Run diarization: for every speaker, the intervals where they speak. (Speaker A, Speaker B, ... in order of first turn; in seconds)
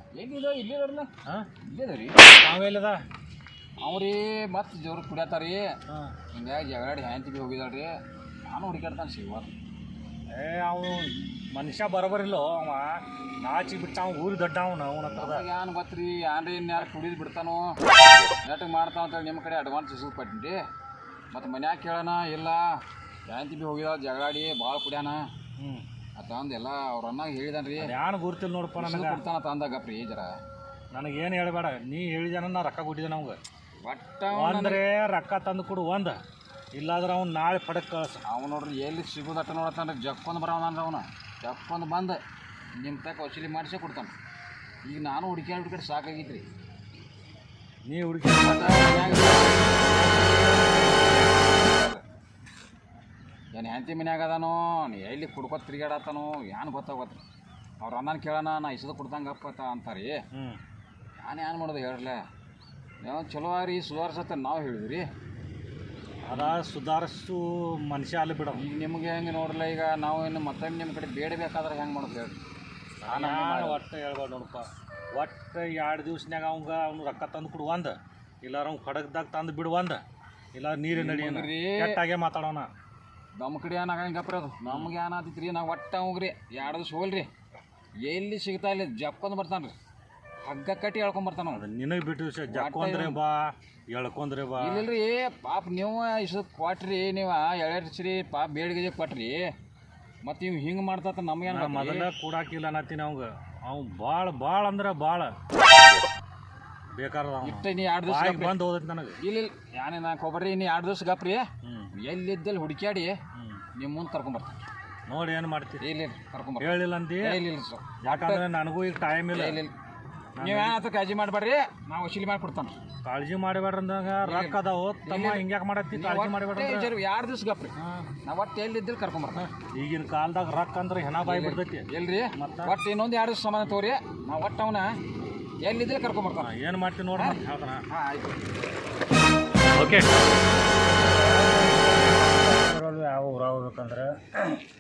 Speaker A: 0.1-1.1, 1.6-2.3, 3.8-5.7, 6.3-7.9, 8.5-9.5, 15.1-17.8, 18.4-20.6, 21.3-22.8, 23.3-25.2, 26.2-27.9, 28.8-30.3, 33.8-34.8, 38.3-42.2, 42.8-44.1, 44.9-46.5, 48.4-52.0, 53.5-57.2, 57.8-60.2, 61.2-62.2, 63.0-65.1, 66.3-66.6, 68.5-72.4, 73.1-73.8, 80.9-82.0, 83.4-87.3, 88.0-89.7, 90.4-91.6, 92.5-93.2, 94.6-99.5, 100.2-102.1, 107.4-108.6, 109.2-113.2, 113.8-114.6, 115.8-118.5, 119.3-119.7, 120.4-122.8, 124.2-129.5, 131.2-134.9, 135.6-136.5, 137.2-138.4
Speaker B: 2.4-3.0, 10.3-15.4, 25.6-25.9, 27.8-29.2, 30.9-33.4, 34.3-36.2, 36.8-38.2, 47.9-49.6, 60.4-60.6, 66.2-68.6, 73.0-80.0, 80.5-82.7, 91.5-94.8, 101.5-105.3, 107.0-109.2, 111.7-111.9, 113.4-113.6, 115.1-115.8, 116.6-117.4, 118.0-119.6, 120.4-120.8, 123.0-126.9, 127.8-128.1, 129.4-132.7, 136.4-137.8, 139.8-140.1
Speaker C: 140.8-144.2